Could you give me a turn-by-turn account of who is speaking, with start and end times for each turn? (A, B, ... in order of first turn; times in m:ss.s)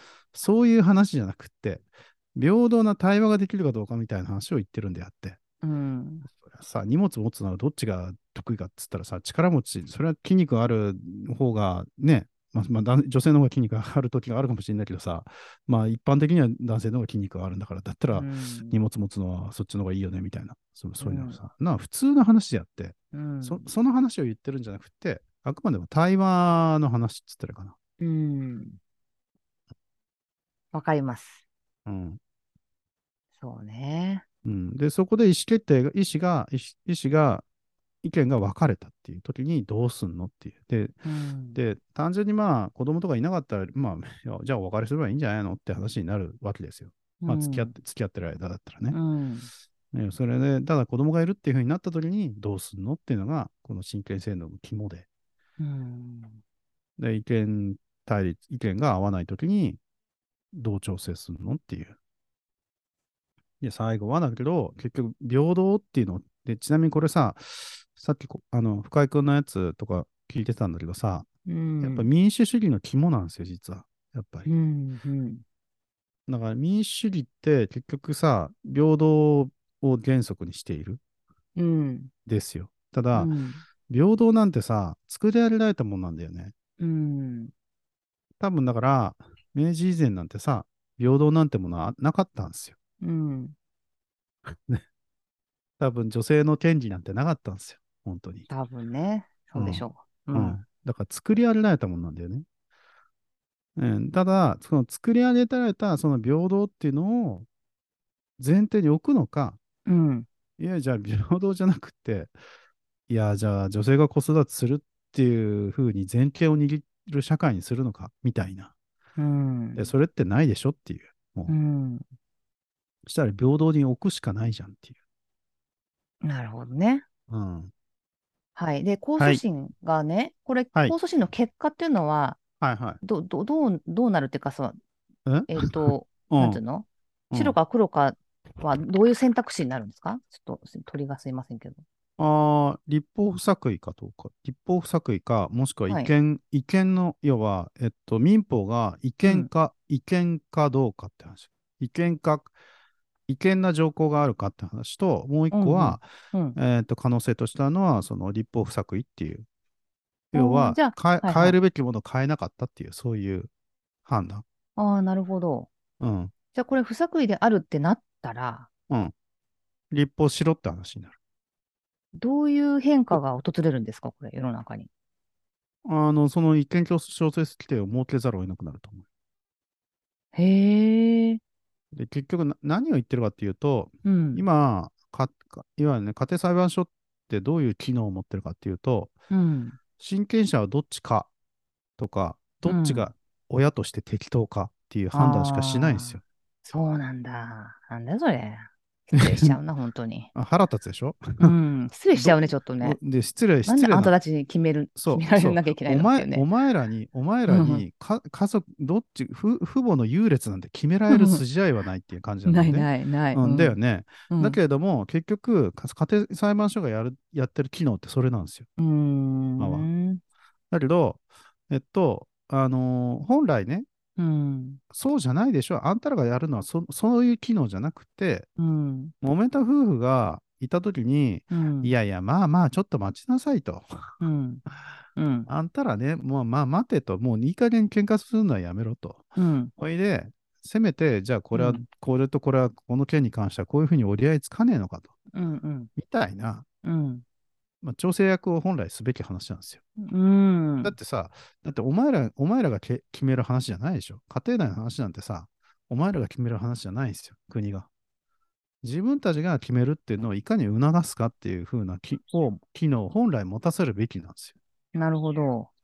0:00.3-0:05.4 A
0:05.6-0:06.2 B
0:06.3-0:27.7 A
0:18.1-0:18.8 B
0:21.0-0:21.4 B
0:23.1-0:23.7 B
0:28.0-0:28.8 B
0:30.7-0:31.4 B
0:31.8-0:32.2 A
0:33.4-0:34.2 B
0:34.4-0:37.4 A
0:38.0-0:41.0 A
0:41.0-0:41.6 B
0:41.5-0:49.0 A
0:47.2-0:47.7 B
0:48.9-0:49.5 B
0:49.9-0:55.0 A
0:55.6-0:56.4 B
0:57.0-0:59.8 A
1:00.5-1:01.9 A
1:03.6-1:11.3 A
1:11.4-1:12.1 B
1:11.8-1:14.5 A
1:14.4-1:15.4 B
1:16.3-1:21.0 A
1:21.6-1:22.1 B
1:22.2-1:23.3 A
1:23.1-1:23.6 B
1:23.9-1:26.5 A
1:26.8-1:27.5 B
1:28.4-1:32.8 A
1:33.0-1:33.5 B
1:34.5-1:34.8 A
1:35.8-1:38.5 A
1:38.5-1:40.6 B
1:39.5-1:42.4 A
1:43.8-1:47.5 A
1:48.4-1:49.6 A
1:49.8-1:50.3 B
1:50.6-1:52.3 A
1:53.1-1:58.7 A
1:59.2-1:59.9 B
1:59.8-2:01.5 A
2:01.5-2:02.0 B
2:03.0-2:04.9 A
2:06.2-2:07.0 B
2:07.3-2:07.7 A
2:08.6-2:12.4 B
2:09.2-2:09.4 A
2:12.6-2:13.0 A
2:13.0-2:14.8 B
2:15.2-2:16.6 A
2:15.5-2:21.8 B
2:17.3-2:17.6 A
2:22.2-2:32.5 A
2:29.2-2:29.5 B
2:33.3-2:39.4 A
2:35.5-2:36.6 B
2:40.3-2:43.5 A
2:40.3-2:41.6 B
2:44.0-2:44.4 A
2:44.8-2:45.7 B
2:46.0-2:46.3 A
2:46.5-2:48.7 B
2:49.9-2:51.1 A
2:52.1-2:54.9 B
2:55.8-2:59.0 A
3:00.3-3:01.4 B
3:01.9-3:09.1 A
3:04.0-3:04.4 B
3:09.3-3:09.8 B
3:10.0-3:11.3 A
3:12.0-3:16.2 A
3:12.6-3:13.1 B
3:15.1-3:20.3 B
3:19.2-3:19.6 A
3:20.3-3:21.6 A
3:21.4-3:23.0 B
3:22.1-3:24.1 A
3:23.6-3:26.4 B
3:25.0-3:38.7 A
3:27.5-3:27.8 B
3:31.1-3:31.4 B
3:32.4-3:33.8 B
3:34.3-3:34.6 B
3:38.8-3:40.2 B
3:39.6-3:39.9 A
3:40.7-3:43.8 A
3:44.2-3:44.8 B
3:44.9-3:48.5 A
3:48.6-3:49.1 B
3:49.2-3:53.9 A
3:51.5-3:51.9 B
3:54.2-3:54.6 B
3:55.2-3:55.5 B
3:55.5-4:05.1 A
3:59.4-3:59.7 B
4:01.5-4:01.8 B
4:05.3-4:05.9 B
4:06.0-4:06.6 A
4:06.8-4:07.2 B
4:07.8-4:09.8 A
4:10.0-4:11.0 B
4:10.8-4:17.9 A
4:18.8-4:24.5 A
4:24.9-4:25.7 B